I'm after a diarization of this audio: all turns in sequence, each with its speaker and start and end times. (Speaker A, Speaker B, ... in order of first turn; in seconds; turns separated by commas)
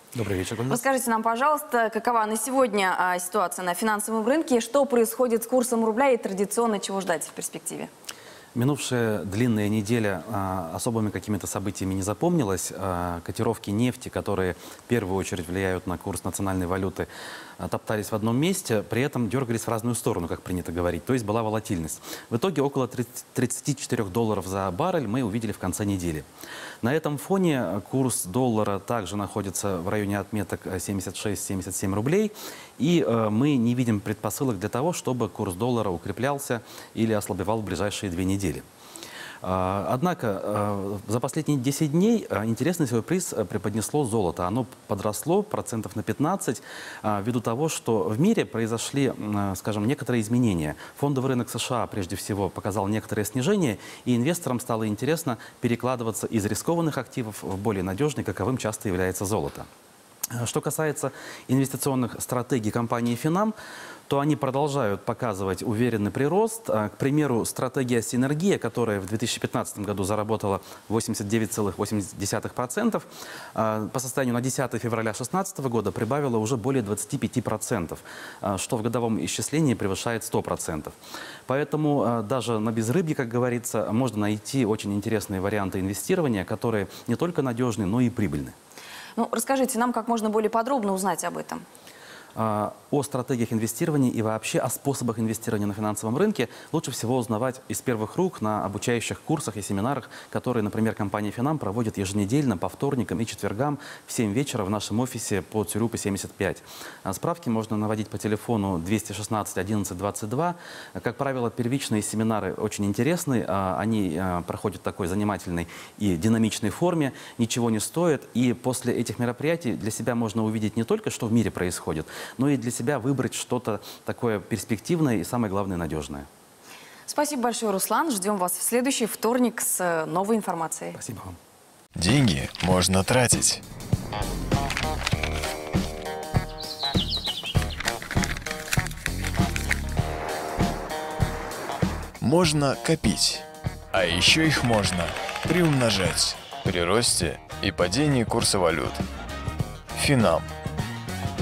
Speaker A: 0.1-0.8, Speaker B: 0.7-7.9, Speaker A: 8.5-17.1, Speaker A: 17.6-26.3, Speaker A: 26.8-38.6, Speaker A: 39.4-59.7, Speaker A: 60.3-63.5, Speaker A: 64.1-80.9, Speaker A: 81.5-88.6, Speaker B: 89.2-91.6, Speaker A: 92.3-126.3, Speaker B: 127.1-131.0, Speaker A: 130.9-131.4, Speaker C: 132.0-133.6, Speaker C: 142.2-149.0, Speaker C: 149.9-150.5